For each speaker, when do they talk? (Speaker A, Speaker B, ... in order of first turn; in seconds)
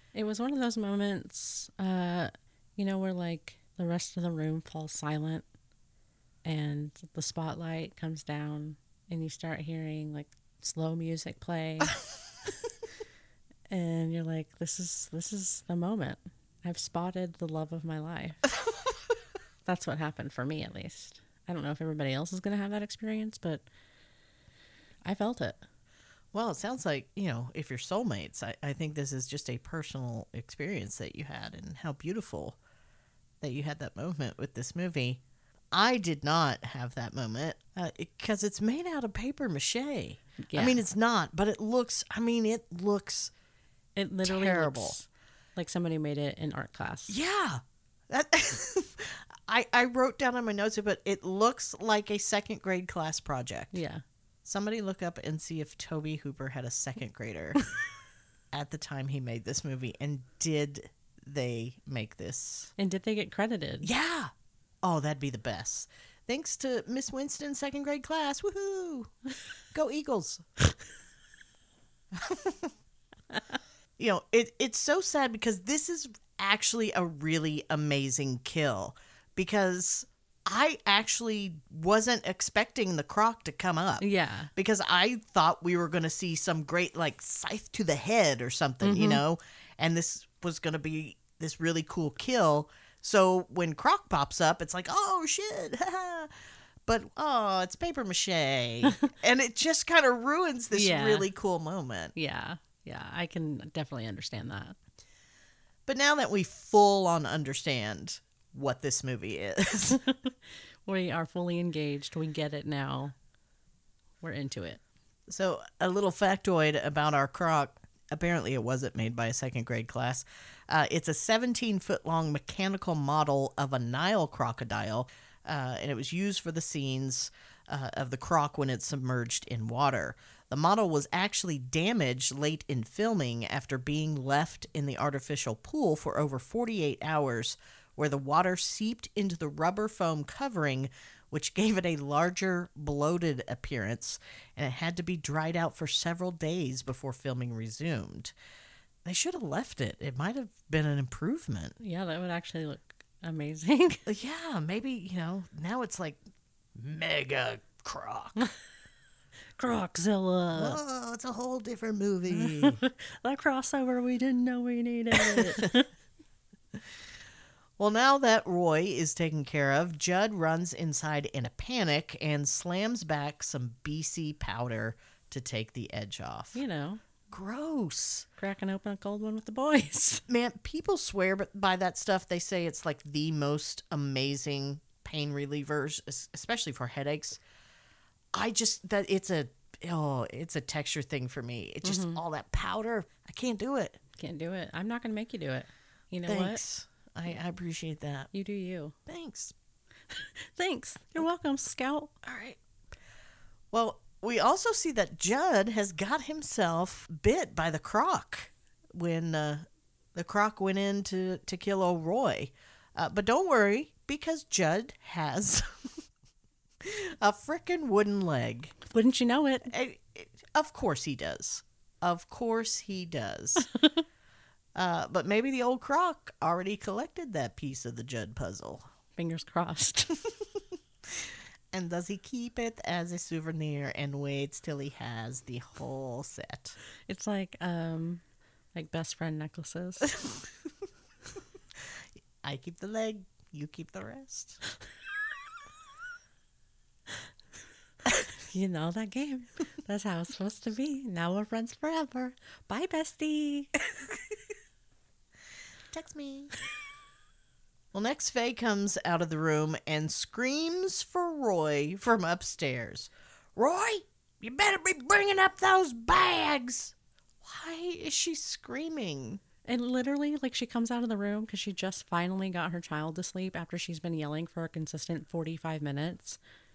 Speaker A: 0.1-5.5, 6.4-11.9, 13.7-18.5, 19.6-23.6, 25.1-25.6, 40.4-40.8, 44.0-47.2, 53.7-54.0, 62.8-63.9, 84.0-84.5, 88.8-89.2, 100.7-101.3, 102.1-104.8, 110.9-113.1, 114.2-114.8, 151.8-154.0, 159.6-160.8, 162.3-165.9, 176.5-177.0, 178.4-180.2, 191.8-192.2, 194.2-196.6, 198.3-198.9, 200.1-202.1, 218.8-219.7, 229.2-230.2, 237.1-238.2, 238.7-240.1, 248.5-253.7, 269.6-276.4
Speaker B: 26.3-32.6, 33.4-35.2, 35.7-43.3, 44.2-45.0, 47.1-53.8, 54.4-57.6, 58.5-62.7, 63.8-64.3, 64.8-69.1, 69.7-70.4, 72.1-72.7, 74.0-96.3, 96.9-102.1, 105.9-110.0, 115.3-148.3, 149.1-151.8, 154.1-156.2, 156.8-158.5, 160.5-162.8, 165.1-165.7, 167.8-176.6, 177.3-178.3, 180.3-187.4, 188.3-194.0, 196.3-198.3, 199.1-199.5, 202.2-202.6, 203.7-215.9, 216.8-218.7, 219.7-223.7, 224.7-228.9, 231.7-236.8, 242.4-244.6, 255.9-256.5, 257.9-269.4